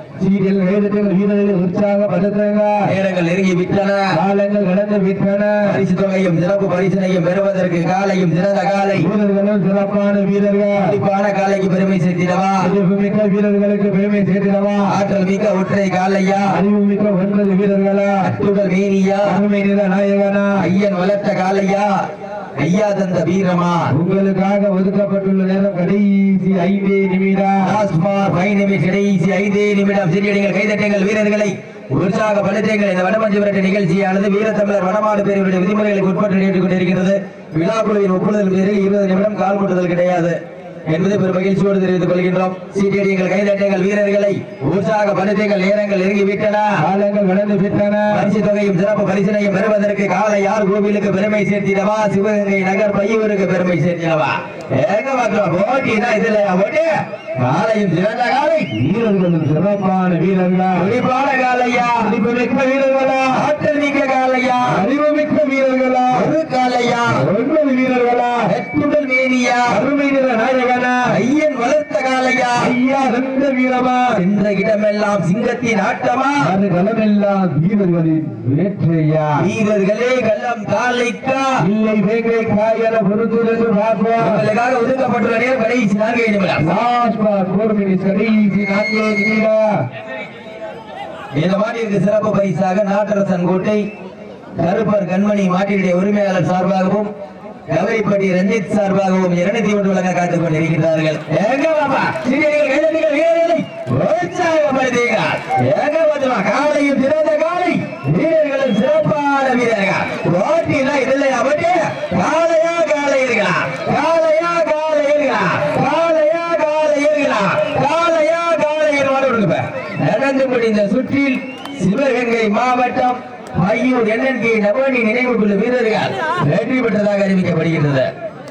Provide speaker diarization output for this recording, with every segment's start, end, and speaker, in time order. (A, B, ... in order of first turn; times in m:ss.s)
0:00.2-0:02.9 A
0:02.8-0:04.1 B
0:04.1-0:05.7 A
0:05.6-0:09.1 B
0:09.0-0:10.9 A
0:10.8-0:12.6 B
0:12.6-0:14.9 A
0:14.8-0:16.6 B
0:16.5-0:18.3 A
0:18.2-0:19.4 B
0:19.2-0:20.6 A
0:20.6-0:21.9 B
0:22.6-0:23.9 B
0:23.9-0:27.7 A
0:27.6-0:46.7 B
0:46.8-0:48.3 A
0:48.1-0:58.7 B
0:58.7-1:00.9 A
1:00.8-1:02.0 B
1:01.8-1:03.4 A
1:03.3-1:04.8 B
1:04.7-1:06.3 A
1:06.1-1:07.2 B
1:07.1-1:08.4 A
1:08.4-1:09.8 B
1:09.7-1:11.0 A
1:11.1-1:12.7 B
1:12.6-1:14.1 A
1:14.1-1:16.4 B
1:16.4-1:19.4 A
1:19.4-1:21.5 B
1:21.6-1:24.4 A
1:24.2-1:26.6 B
1:26.6-1:29.7 A
1:31.4-1:33.8 B
1:34.6-1:37.1 B
1:37.7-2:08.1 B